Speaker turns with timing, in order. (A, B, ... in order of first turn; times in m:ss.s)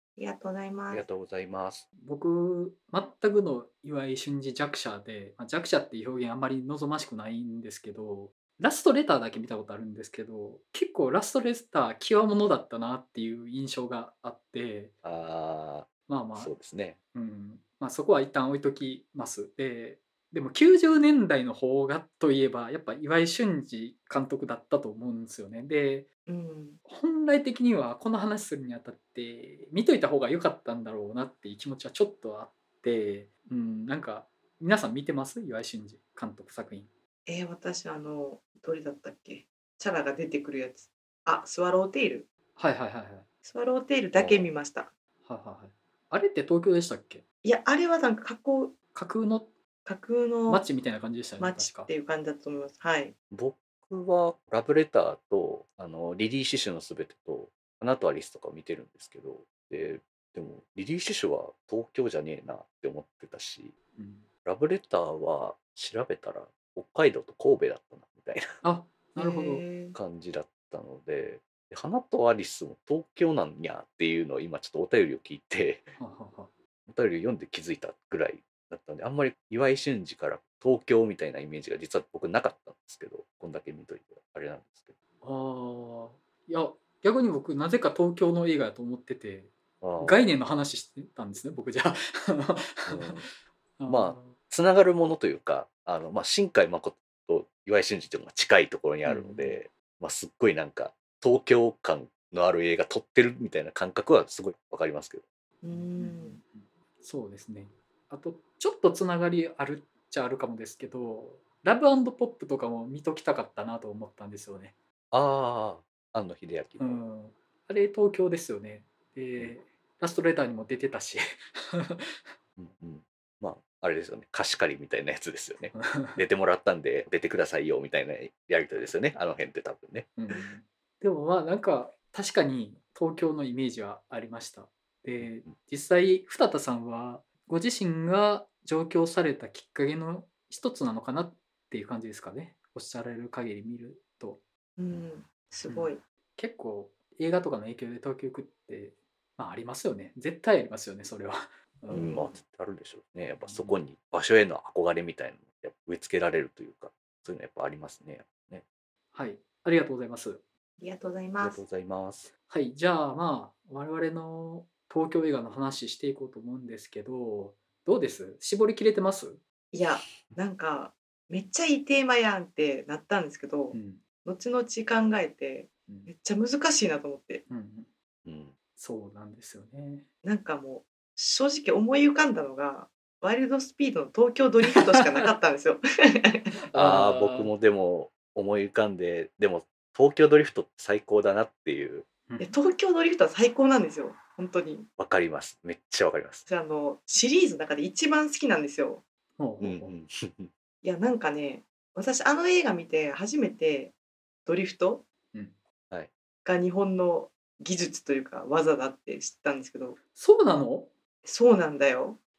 0:00.2-0:01.1 A
0:00.9-0:01.9 B
0:02.0-0:14.9 C
0:15.0-0:17.0 B
0:16.1-0:16.5 C
0:17.1-0:26.1 C
0:26.3-0:26.8 A
0:26.9-0:36.9 C
0:37.3-0:42.3 A
0:42.6-0:43.3 C
0:43.4-0:44.9 A
0:44.1-0:44.5 B
0:45.3-0:47.2 C
0:47.4-0:48.8 A
0:49.0-0:49.5 C
0:49.9-0:50.7 A
0:50.5-0:51.9 C
0:51.4-0:53.1 A
0:53.3-1:03.7 B
1:04.0-1:04.3 C
1:04.4-1:08.5 B
1:08.6-1:09.7 C
1:09.2-1:10.0 A
1:09.9-1:16.0 B
1:16.0-1:16.5 C
1:16.9-1:25.0 B
1:25.2-1:33.2 C
1:29.8-1:30.3 B
1:32.9-1:33.3 B
1:33.8-1:34.4 C
1:33.9-1:45.2 B
1:39.0-1:39.6 C
1:45.6-1:46.4 A
1:46.0-1:54.7 C
1:55.1-1:57.0 B
1:56.8-2:02.2 C
2:02.6-2:10.2 B
2:05.7-2:06.2 C
2:10.2-2:24.4 C
2:15.2-2:15.5 B
2:24.8-2:26.0 A
2:25.7-2:32.2 C
2:31.9-2:32.3 A
2:31.9-2:38.6 B
2:33.4-2:33.8 C
2:39.1-2:40.4 C
2:40.8-2:41.6 A
2:41.4-2:42.3 B
2:42.5-2:49.4 C
2:49.7-2:57.4 A
2:53.7-2:54.0 C
2:57.5-2:57.9 C
2:58.2-2:58.5 B
2:58.8-3:00.1 C
3:00.2-3:06.5 A
3:05.0-3:05.3 C
3:06.6-3:07.5 C
3:06.7-3:12.1 B
3:12.3-3:12.6 C
3:12.4-3:14.9 A
3:15.0-3:16.5 B
3:16.5-3:19.0 A
3:19.4-3:19.9 C
3:19.6-3:20.5 B
3:20.8-3:24.0 A
3:24.5-3:25.0 A
3:26.4-3:30.0 A
3:30.1-3:30.9 C
3:31.2-3:32.2 A